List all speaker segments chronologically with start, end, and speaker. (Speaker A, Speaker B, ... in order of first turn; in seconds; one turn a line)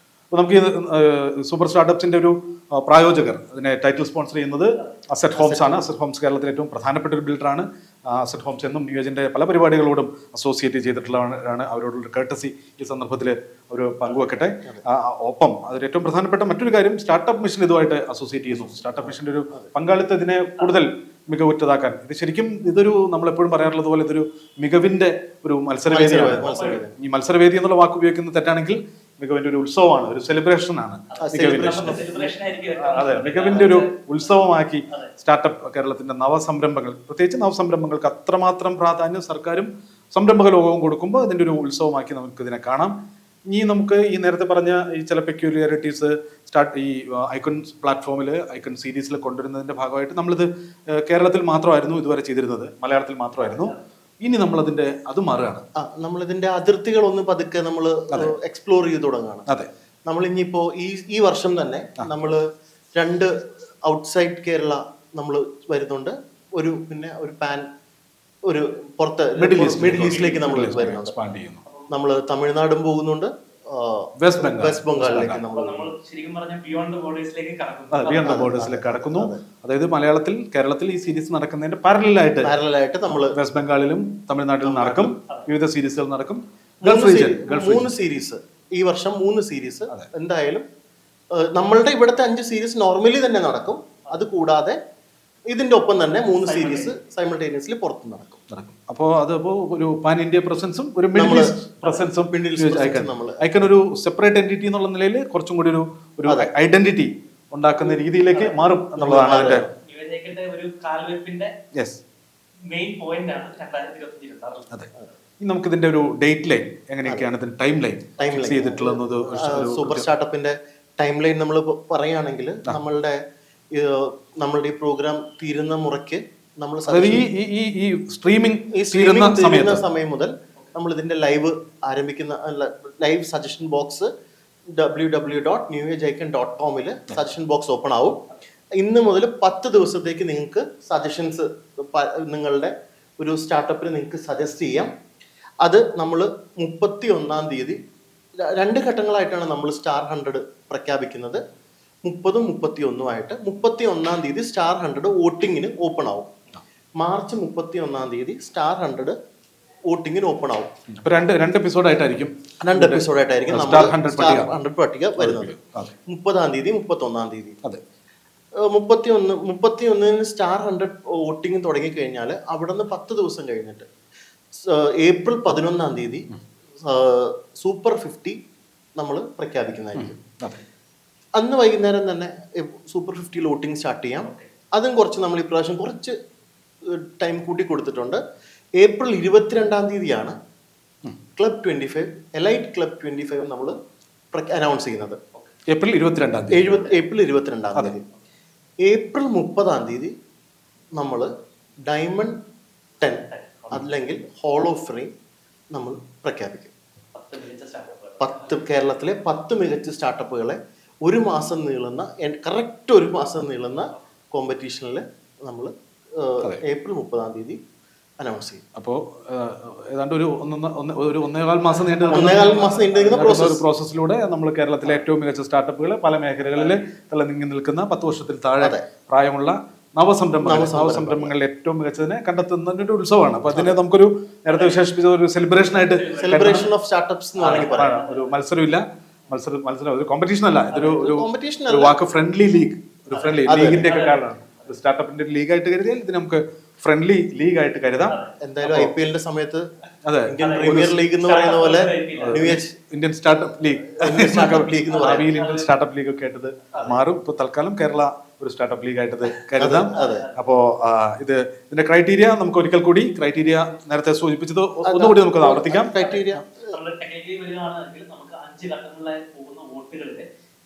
Speaker A: 0.3-32.0
Speaker B: 5.3-5.8
Speaker B: 18.6-19.6
Speaker B: 25.9-26.9
Speaker C: 26.4-26.8
Speaker C: 31.1-33.9
Speaker B: 31.3-32.3
Speaker A: 32.8-43.0
Speaker A: 43.5-55.6
Speaker C: 53.4-53.8
Speaker B: 55.8-59.5
Speaker B: 60.1-63.3
Speaker B: 63.8-67.7
Speaker B: 68.5-71.2
Speaker A: 69.4-71.6
Speaker B: 71.9-75.9
Speaker A: 74.2-75.4
Speaker C: 75.5-78.5
Speaker A: 77.9-82.5
Speaker B: 78.2-79.4
Speaker B: 82.4-83.4
Speaker A: 83.2-87.9
Speaker B: 84.6-85.1
Speaker B: 86.8-90.7
Speaker B: 91.3-94.8
Speaker B: 95.5-98.4
Speaker C: 96.5-97.0
Speaker A: 98.5-109.7
Speaker B: 101.2-101.6
Speaker B: 102.2-103.4
Speaker C: 108.3-108.6
Speaker B: 109.0-109.7
Speaker C: 109.5-111.5
Speaker A: 111.7-112.0
Speaker C: 112.7-114.7
Speaker A: 115.4-120.1
Speaker B: 118.2-123.2
Speaker B: 123.7-127.3
Speaker A: 126.9-129.8
Speaker B: 128.7-134.1
Speaker B: 134.7-138.2
Speaker B: 138.8-144.9
Speaker B: 145.6-147.8
Speaker B: 148.4-151.4
Speaker B: 152.1-156.3
Speaker B: 157.0-159.2
Speaker B: 159.9-160.7
Speaker A: 161.0-164.5
Speaker B: 162.6-165.5
Speaker A: 165.2-165.9
Speaker B: 166.1-167.6
Speaker B: 168.6-173.9
Speaker B: 174.5-176.3
Speaker B: 176.8-178.4
Speaker B: 179.0-180.2
Speaker A: 179.9-180.6
Speaker B: 181.4-186.2
Speaker B: 186.8-188.2
Speaker B: 188.8-190.3
Speaker B: 191.4-193.8
Speaker B: 194.3-195.2
Speaker A: 195.7-196.8
Speaker B: 196.5-198.1
Speaker B: 198.8-200.1
Speaker B: 201.0-201.3
Speaker B: 201.8-202.4
Speaker B: 203.0-205.1
Speaker C: 203.3-203.8
Speaker B: 205.7-206.7
Speaker C: 207.1-208.6
Speaker B: 208.2-217.6
Speaker B: 218.2-218.6
Speaker A: 218.8-236.7
Speaker C: 221.7-223.5
Speaker B: 222.1-223.7
Speaker C: 226.6-226.9
Speaker B: 230.4-231.3
Speaker C: 234.5-234.8
Speaker C: 235.6-236.7
Speaker B: 236.2-238.0
Speaker C: 237.4-238.3
Speaker A: 237.4-248.9
Speaker B: 240.7-241.9
Speaker C: 243.1-244.7
Speaker B: 243.5-243.9
Speaker C: 248.1-248.3
Speaker B: 248.4-249.7
Speaker A: 250.1-251.0
Speaker B: 250.3-252.7
Speaker C: 250.4-252.6
Speaker A: 252.2-265.9
Speaker B: 254.0-255.3
Speaker C: 254.9-255.7
Speaker B: 259.6-260.3
Speaker C: 259.9-260.4
Speaker B: 264.9-266.7
Speaker C: 265.9-270.3